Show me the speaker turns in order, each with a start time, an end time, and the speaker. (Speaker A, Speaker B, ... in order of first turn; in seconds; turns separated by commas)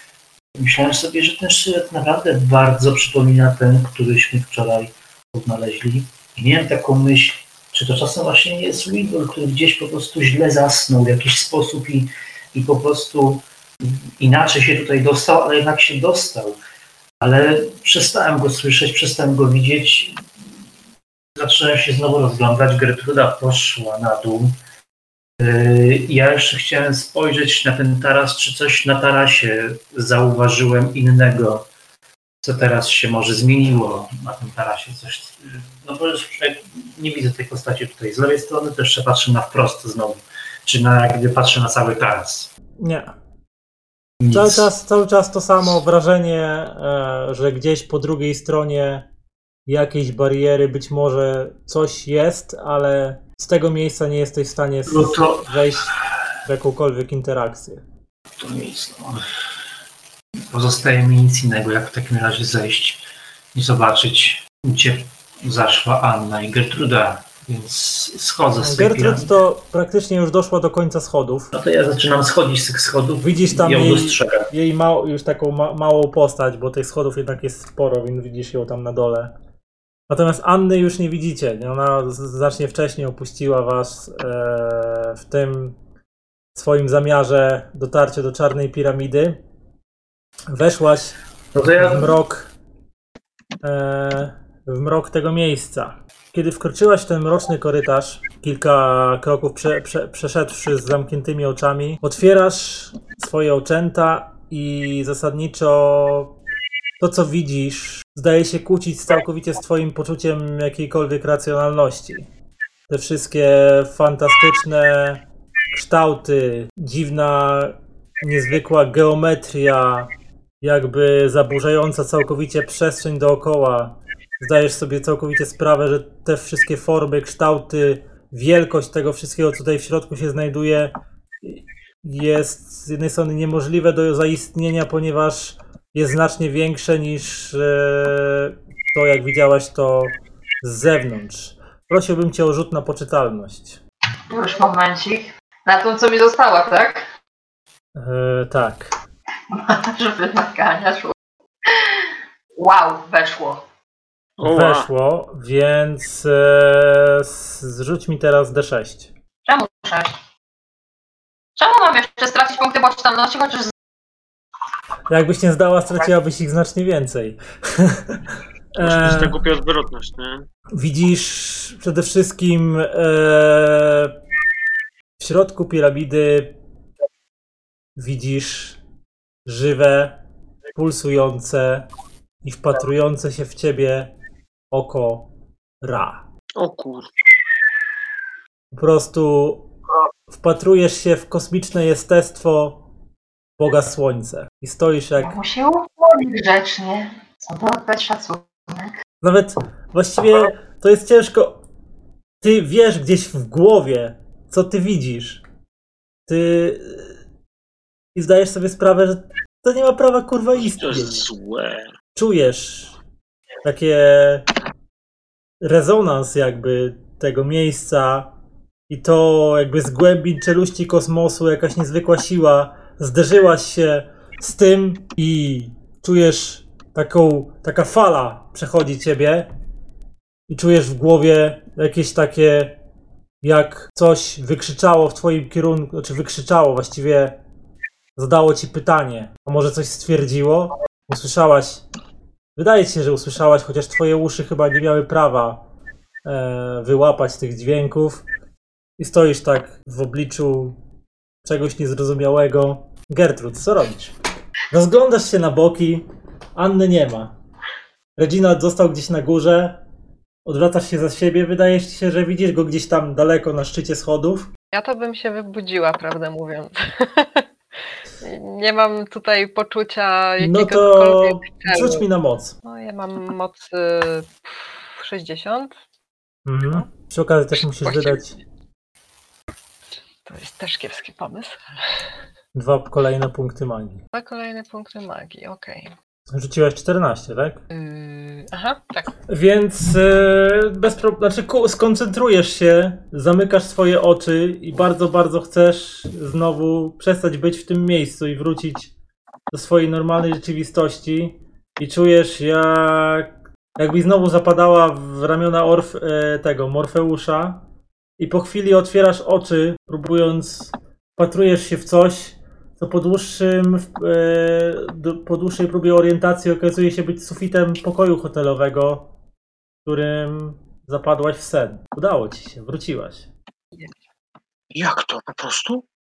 Speaker A: 0.5-16.6, Speaker A: 17.2-20.2, Speaker A: 21.4-24.6, Speaker A: 25.4-31.7, Speaker A: 32.4-42.5, Speaker B: 42.8-43.1, Speaker A: 44.2-44.7, Speaker B: 44.3-49.0, Speaker B: 49.7-57.8, Speaker A: 54.9-55.6, Speaker A: 58.4-59.3, Speaker A: 60.5-69.3, Speaker B: 68.6-71.5, Speaker A: 71.5-74.5, Speaker B: 73.2-79.3, Speaker B: 80.1-85.8, Speaker B: 86.5-89.4, Speaker B: 90.5-91.2, Speaker A: 91.5-92.2, Speaker B: 91.8-92.5, Speaker B: 93.6-106.3, Speaker B: 107.0-112.3, Speaker B: 112.9-115.2, Speaker B: 115.7-120.1, Speaker B: 120.6-143.8, Speaker C: 144.3-147.1, Speaker B: 147.9-148.9, Speaker C: 149.5-151.1, Speaker C: 151.7-153.6, Speaker D: 154.4-154.9, Speaker B: 154.4-159.1, Speaker C: 159.4-160.2, Speaker C: 161.6-163.7, Speaker B: 165.1-169.4, Speaker D: 168.8-170.5, Speaker B: 170.7-174.1, Speaker B: 175.2-176.5, Speaker B: 177.9-178.8, Speaker B: 179.4-180.2, Speaker B: 180.7-181.8, Speaker B: 182.4-184.1, Speaker B: 184.7-185.3, Speaker B: 185.8-186.2, Speaker D: 186.6-187.1, Speaker B: 188.7-189.7, Speaker B: 190.3-192.8, Speaker B: 193.6-195.4, Speaker C: 195.2-198.9, Speaker B: 199.2-201.6, Speaker B: 202.4-205.4, Speaker B: 206.3-207.2, Speaker B: 208.1-211.2, Speaker D: 210.6-211.9, Speaker B: 212.1-213.0, Speaker B: 213.6-214.5, Speaker B: 215.6-218.3, Speaker B: 218.9-229.5, Speaker B: 230.5-232.8, Speaker B: 233.4-237.4, Speaker B: 238.2-241.8, Speaker B: 242.6-245.6, Speaker B: 246.2-248.2, Speaker B: 249.0-250.8, Speaker B: 251.4-254.1, Speaker B: 254.7-256.0, Speaker B: 256.6-257.3, Speaker B: 258.2-259.8, Speaker B: 260.4-264.5, Speaker E: 264.7-267.5, Speaker E: 268.2-272.1, Speaker B: 270.4-272.6, Speaker E: 272.6-275.8, Speaker B: 276.4-278.4, Speaker E: 277.8-278.2, Speaker E: 280.2-282.1, Speaker B: 282.5-284.0, Speaker E: 284.1-285.9, Speaker B: 286.3-287.6, Speaker E: 287.7-289.1, Speaker B: 289.3-298.9, Speaker B: 299.5-307.6, Speaker B: 308.2-319.1, Speaker B: 319.8-323.3, Speaker D: 324.7-325.8